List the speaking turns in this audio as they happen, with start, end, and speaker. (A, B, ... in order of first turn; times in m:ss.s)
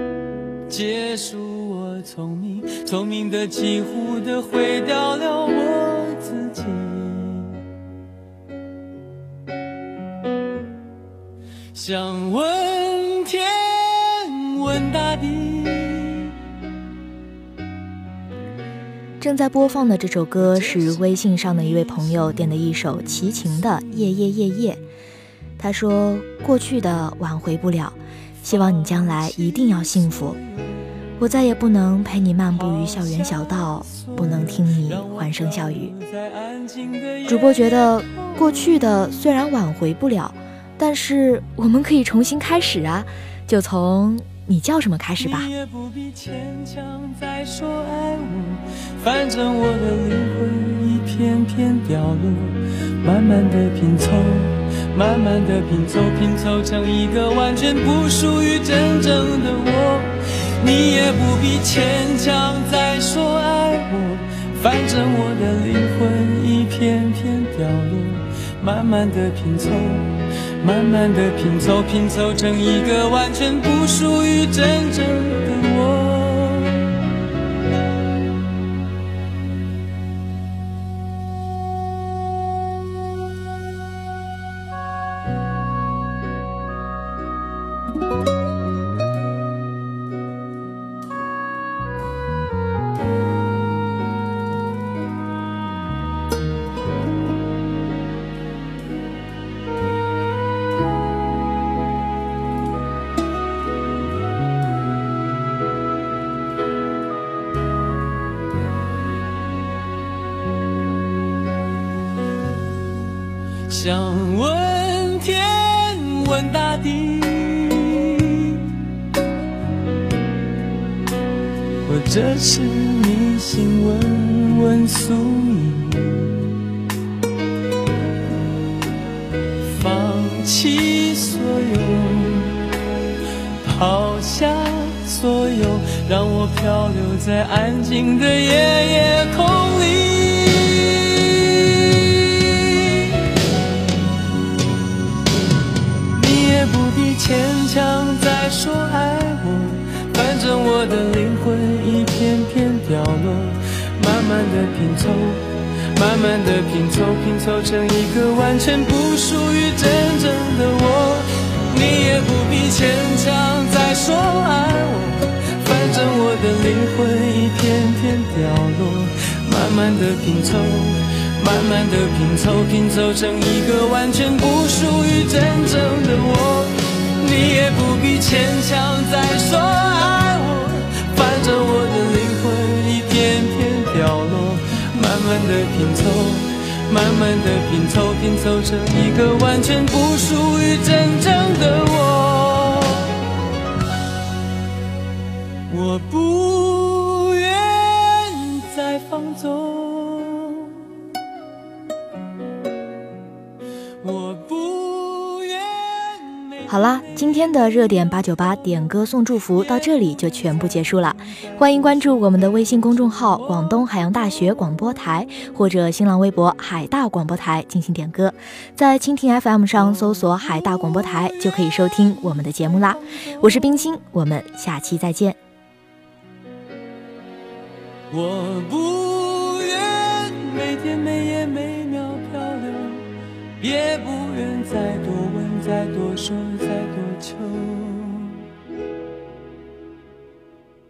0:00.7-0:07.6 A
0:11.7-0:16.3 A
0:19.2-0:24.8 B
0:20.4-0:22.4 A
0:25.6-0:30.4 B
0:28.5-0:30.4 A
0:31.2-0:35.9 B
0:32.4-0:39.2 A
0:37.3-0:45.5 B
0:45.2-1:16.9 A
1:53.7-1:58.6 A
2:01.8-2:06.5 A
2:09.7-2:12.5 A
2:13.6-2:23.0 A
2:26.1-3:13.1 A
3:15.7-3:20.8 A
3:24.0-3:26.7 A
3:26.7-3:45.4 B
3:48.1-3:53.1 A
3:53.6-3:58.4 A